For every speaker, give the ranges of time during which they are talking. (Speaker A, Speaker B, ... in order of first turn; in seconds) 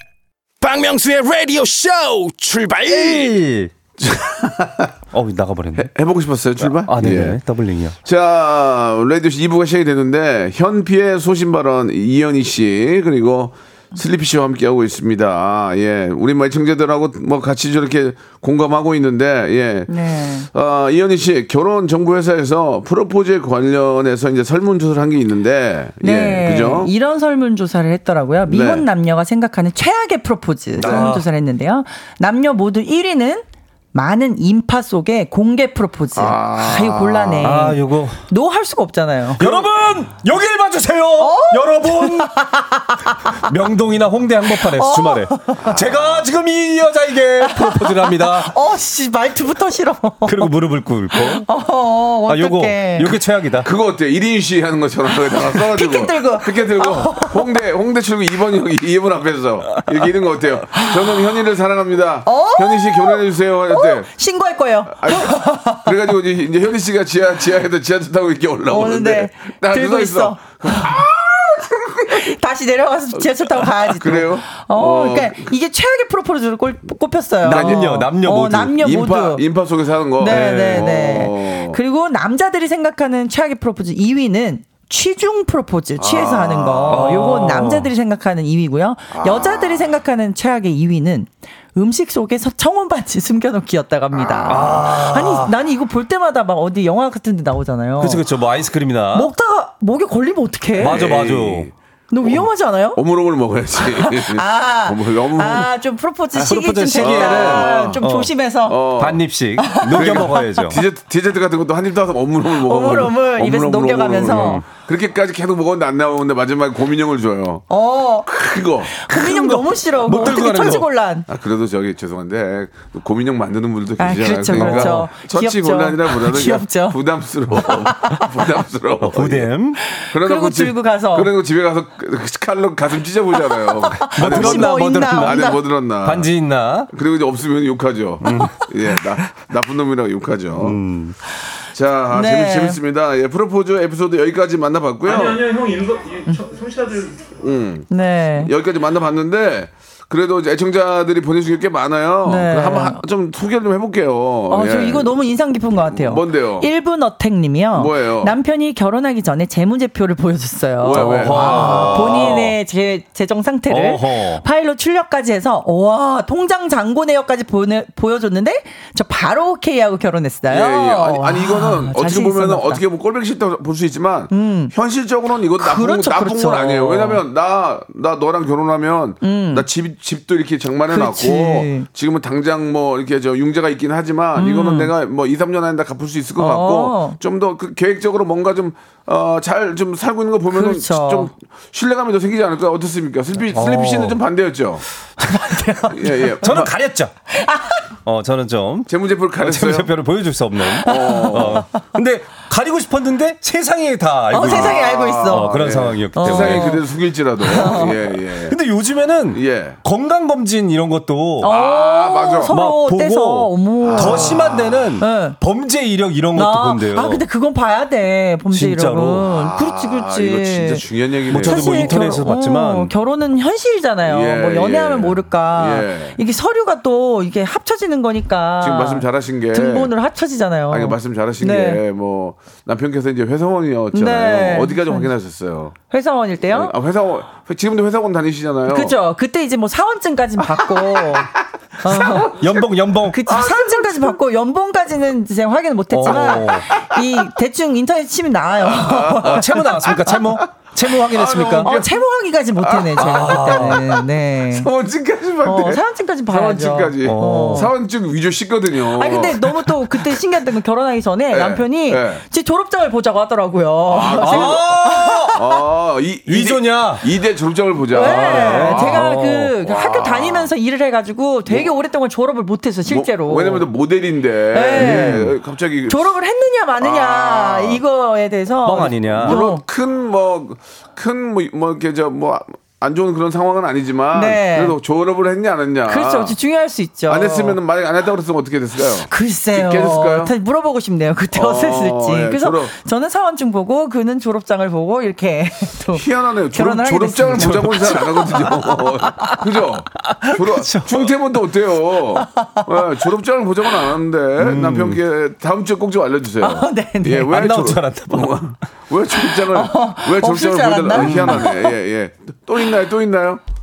Speaker A: 0.6-3.3
Speaker B: 2.9-3.7, 5.1-5.9, 6.7-8.0, 30.8-31.2, 37.4-38.2, 39.4-42.4, 43.3-48.5, 50.2-51.5, 52.3-53.7, 77.4-78.8, 80.2-81.0, 86.9-87.9, 94.5-95.5, 98.0-99.3, 100.8-101.7, 106.4-108.3, 109.0-110.8, 114.2-114.7, 119.2-120.9, 124.5-125.1, 129.0-129.8, 134.1-136.9, 138.2-138.7, 140.6-141.2, 160.9-162.5, 163.7-164.4, 193.5-194.2, 196.4-197.1, 198.1-206.8, 207.5-211.5, 212.5-217.2, 218.5-219.3, 221.3-222.9, 242.3-243.2, 245.9-246.7, 249.2-251.7, 253.0-253.8, 257.0-257.7, 264.2-265.4, 266.3-267.1, 267.9-269.5, 274.8-275.3, 278.6-279.4, 297.4-298.5, 300.1-301.1, 304.4-305.0, 307.3-308.5, 310.9-311.5
Speaker C: 4.0-4.9, 5.8-7.4, 8.0-26.9, 28.5-28.9, 30.8-31.1, 36.1-37.6, 45.6-46.3, 53.6-64.1, 64.9-72.3, 73.2-75.5, 77.5-77.8, 78.8-81.8, 86.0-87.2, 89.1-89.9, 94.1-94.8, 100.8-101.7, 103.0-105.7, 107.0-108.0, 108.7-109.2, 109.9-117.7, 118.3-119.6, 121.3-129.5, 130.0-136.3, 136.9-140.8, 141.7-145.6, 147.2-155.2, 155.8-156.7, 157.7-158.4, 160.8-162.5, 170.5-194.8, 195.8-196.7, 198.9-199.9, 200.8-201.7, 204.4-208.6, 209.3-209.8, 211.4-212.5, 213.8-214.9, 219.3-222.1, 224.1-226.2, 228.6-229.9, 230.7-235.8, 236.5-238.9, 240.6-242.7, 243.3-244.2, 246.1-247.0, 248.6-251.9, 252.6-259.7, 261.3-262.2, 263.9-264.7, 265.3-269.1, 269.6-270.5, 272.9-276.1, 276.8-277.8, 279.2-286.4, 287.1-290.3, 291.3-292.7, 295.9-313.4
Speaker D: 19.9-20.5, 26.0-39.7, 41.2-43.4, 44.5-45.7, 47.5-50.5, 51.1-53.1, 55.5-57.4, 62.2-65.9, 68.7-70.9, 72.1-79.4, 80.2-98.2, 99.1-101.0, 102.1-103.0, 103.8-108.8, 109.6-110.7, 112.6-114.6, 117.7-118.3, 118.9-121.3, 124.0-127.0, 127.5-128.3, 129.8-131.3, 133.4-135.6, 142.1-142.8, 147.9-148.5, 152.2-153.0, 154.5-172.8, 174.3-174.7, 175.6-177.2, 179.2-179.7, 180.9-181.9, 184.4-184.9, 186.4-187.2, 190.5-191.3, 195.2-196.3, 197.3-197.9, 200.8-201.6, 204.3-205.5, 206.1-206.8, 207.4-207.9, 211.4-215.4, 216.3-231.8, 233.9-235.1, 235.9-236.7, 238.7-242.4, 243.1-249.6, 251.6-254.7, 255.4-257.7, 258.9-265.4, 267.9-273.7, 274.5-275.2, 275.9-279.6, 284.1-284.8, 285.9-287.6, 289.1-298.6, 302.2-302.7, 306.4-307.3, 309.5-311.7